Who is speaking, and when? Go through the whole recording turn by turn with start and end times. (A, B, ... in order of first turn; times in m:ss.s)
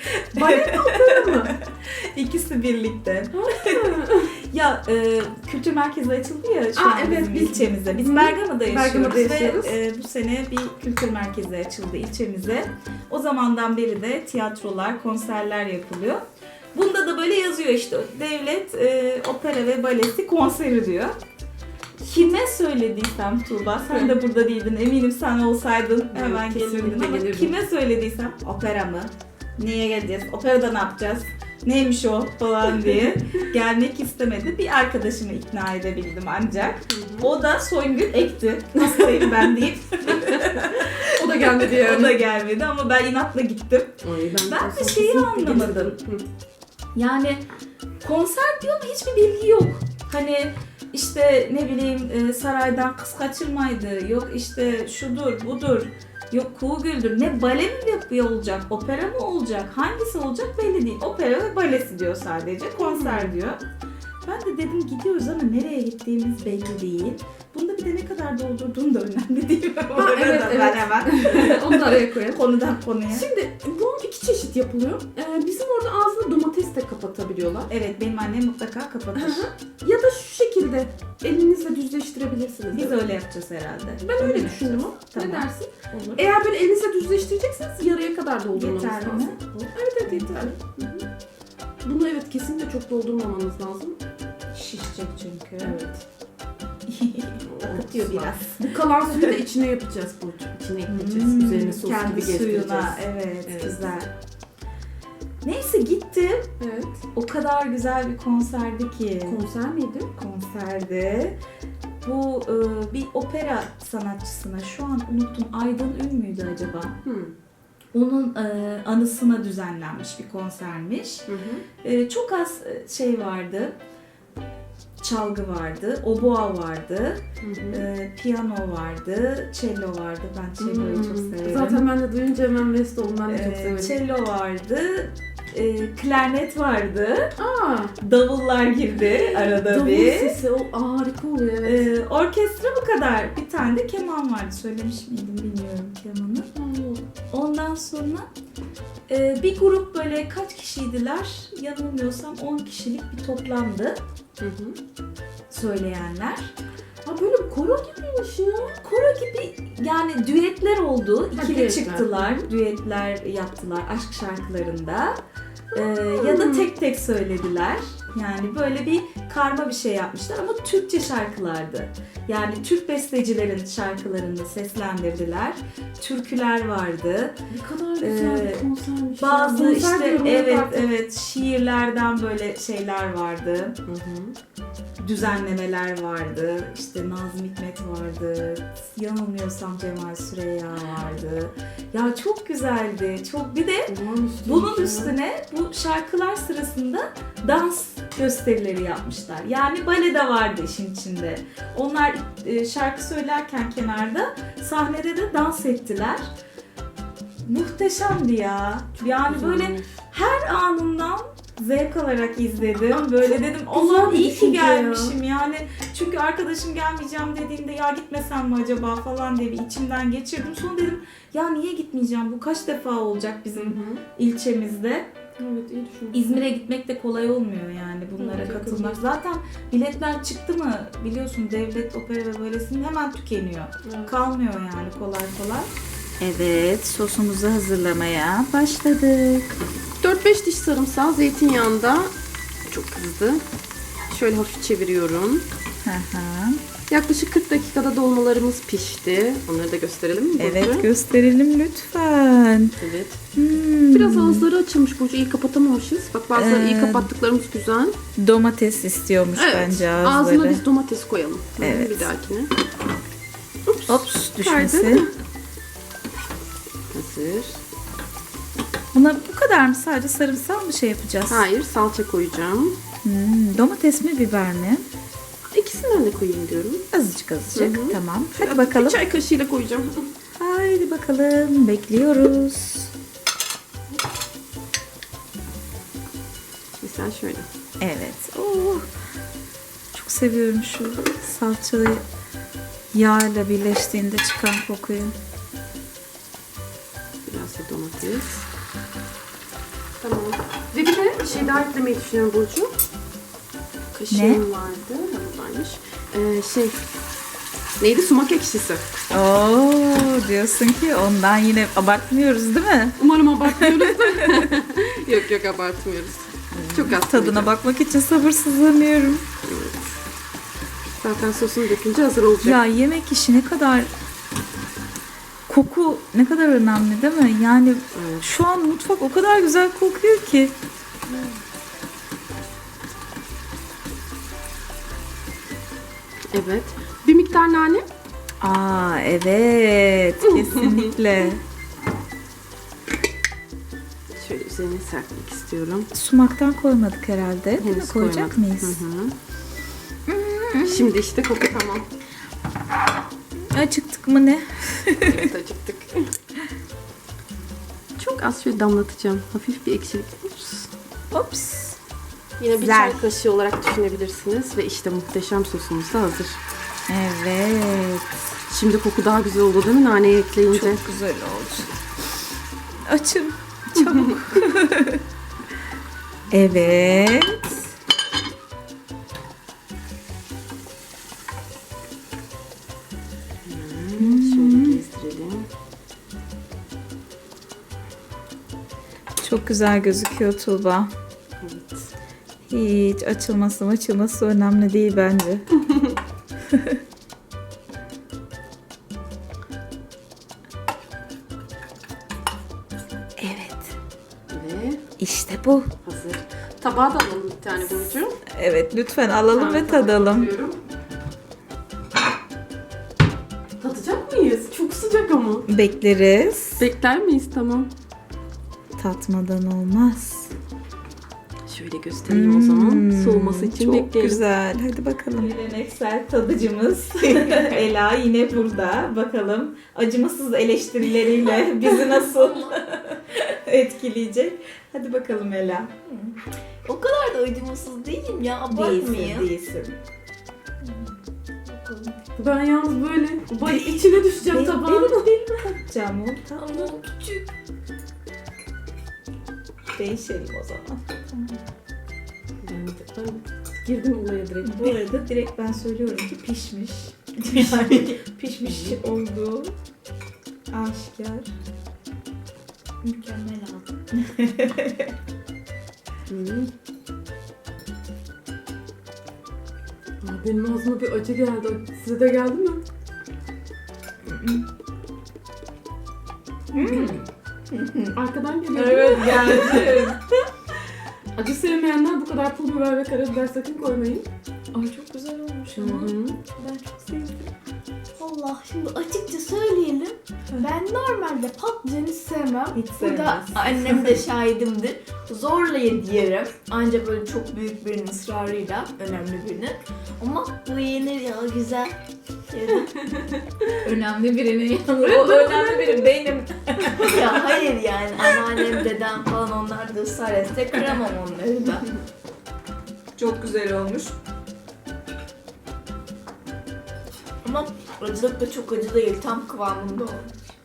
0:00.2-0:04.0 A
0:00.3-0:01.6 B
0:03.3-0:04.4 B
0:04.5-0:16.2 A
0:06.8-0:09.8 B
0:16.8-0:21.1 A
0:22.0-0:46.0 A
0:26.1-0:27.6 B
0:32.7-0:33.1 B
0:36.9-0:37.3 B
0:38.8-0:39.5 B
0:40.3-0:42.2 B
0:44.0-0:46.3 B
0:47.0-0:47.4 A
0:48.0-1:03.6 A
1:02.8-1:03.4 B
1:04.2-1:13.3 A
1:10.0-1:12.5 B
1:13.1-1:17.7 B
1:17.7-1:19.5 A
1:19.2-1:23.0 B
1:22.7-1:26.3 A
1:24.0-1:31.1 B
1:28.5-1:30.5 A
1:31.8-1:34.0 B
1:34.5-1:35.8 A
1:35.6-1:36.0 B
1:36.9-1:39.4 A
1:37.4-1:43.9 B
1:40.9-1:44.1 A
1:45.4-1:46.5 A
1:46.6-1:47.0 B
1:47.1-1:49.4 A
1:49.2-1:50.1 B
1:50.2-1:51.4 A
1:52.0-1:57.0 A
1:57.0-1:57.3 B
1:57.9-2:01.3 A
2:01.3-2:01.6 B
2:01.8-2:03.8 A
2:05.0-2:11.9 A
2:07.4-2:07.9 B
2:10.6-2:14.0 B
2:13.3-2:17.3 A
2:17.4-2:18.0 B
2:18.0-2:20.4 A
2:18.9-2:21.9 B
2:21.6-2:26.5 A
2:26.6-2:27.0 B
2:27.3-2:28.3 A
2:29.1-2:34.0 A
2:34.4-2:34.8 B
2:35.5-2:36.5 A
2:37.1-2:38.8 B
2:38.8-2:45.2 A
2:41.3-2:42.4 B
2:45.7-2:46.7 B
2:45.7-2:57.3 A
2:57.5-3:00.9 B
2:58.0-3:03.8 A
3:03.8-3:04.4 B
3:05.0-3:13.9 A
3:13.9-3:15.2 B
3:14.4-3:26.2 A
3:27.4-3:45.1 A
3:29.0-3:30.0 B
3:32.9-3:35.2 B
3:43.6-3:44.0 B
3:45.4-3:46.5 B
3:46.1-3:55.7 A
3:48.2-3:49.0 B
3:53.8-3:54.1 B
3:56.2-3:59.5 A
4:00.0-4:02.1 B
4:02.7-4:03.4 B
4:04.1-4:05.4 B
4:05.8-4:06.6 A
4:06.9-4:10.9 B
4:10.4-4:12.7 A
4:12.8-4:13.2 B
4:13.4-4:14.5 A
4:13.9-4:18.0 B
4:16.3-4:17.1 A
4:18.2-4:20.6 A
4:19.4-4:22.5 B
4:21.6-4:22.1 A
4:23.7-4:25.1 B
4:23.9-4:25.1 A
4:26.9-4:27.6 B
4:28.9-4:31.5 A
4:31.3-4:32.8 B
4:33.0-4:34.8 A
4:35.5-4:36.8 B
4:36.9-4:39.1 A
4:37.5-4:40.1 B
4:40.4-4:42.9 A
4:46.8-4:47.5 B
4:47.8-4:48.9 A
4:49.9-4:52.0 A
4:52.9-4:55.2 A
4:57.3-4:58.5 B
5:00.0-5:02.7 B
5:03.9-5:06.8 B
5:04.1-5:04.4 A
5:07.8-5:08.9 B
5:09.1-5:14.4 A
5:13.0-5:17.5 B
5:16.5-5:19.2 A
5:19.5-5:20.0 B
5:21.0-5:22.6 B
5:22.4-5:23.9 A
5:25.5-5:30.5 A
5:27.9-5:28.3 B
5:36.3-5:37.9 B
5:38.4-5:41.4 A
5:40.2-5:40.9 B
5:44.2-5:45.9 B
5:45.9-5:48.8 A
5:47.6-5:49.2 B
5:50.1-5:50.9 A
5:50.6-5:51.9 B
5:53.5-5:55.2 A
5:55.1-5:56.1 B
5:58.0-6:00.7 B
6:01.1-6:01.8 A
6:02.4-6:06.4 B
6:02.6-6:03.1 A
6:06.9-6:08.2 A
6:08.5-6:10.8 B
6:10.5-6:11.7 A
6:12.9-6:15.0 A
6:13.8-6:14.2 B
6:16.3-6:17.6 A
6:16.4-6:17.2 B
6:23.4-6:25.5 B
6:24.0-6:24.8 A
6:29.2-6:30.9 A
6:31.4-6:31.9 B
6:32.5-6:35.5 A
6:43.2-6:43.8 A
6:44.3-6:44.8 B
6:45.0-6:45.7 A
6:45.8-6:48.2 B
6:47.6-6:50.3 A
6:49.3-6:50.6 B
6:53.6-6:55.5 B
6:55.5-6:56.7 A
6:56.6-6:57.7 B
6:58.8-7:00.3 A
7:01.5-7:04.2 B
7:02.1-7:15.7 A
7:11.3-7:12.6 C
7:15.9-7:19.3 C
7:18.5-7:19.8 A
7:21.5-7:22.0 C
7:22.2-7:25.1 B
7:23.4-7:26.7 A
7:26.4-7:27.3 C
7:29.8-7:31.4 A
7:32.4-7:34.8 B
7:34.4-7:39.5 A
7:38.4-7:38.8 B
7:40.5-7:41.3 A
7:42.8-7:44.9 A
7:46.1-7:46.5 B
7:50.0-7:52.6 B
7:54.0-7:54.5 A
7:56.5-7:58.0 A
7:56.6-7:57.0 B
7:57.9-7:59.9 B
7:58.6-8:00.0 A
7:59.2-7:59.4 C
8:01.2-8:04.1 B
8:04.5-8:07.3 A
8:05.6-8:06.2 B
8:08.0-8:21.8 C
8:12.5-8:13.9 A
8:22.3-8:22.9 C
8:23.6-8:27.3 A
8:24.9-8:26.0 B
8:26.8-8:31.7 C
8:28.2-8:28.5 A
8:33.0-8:33.9 A
8:37.2-8:40.1 C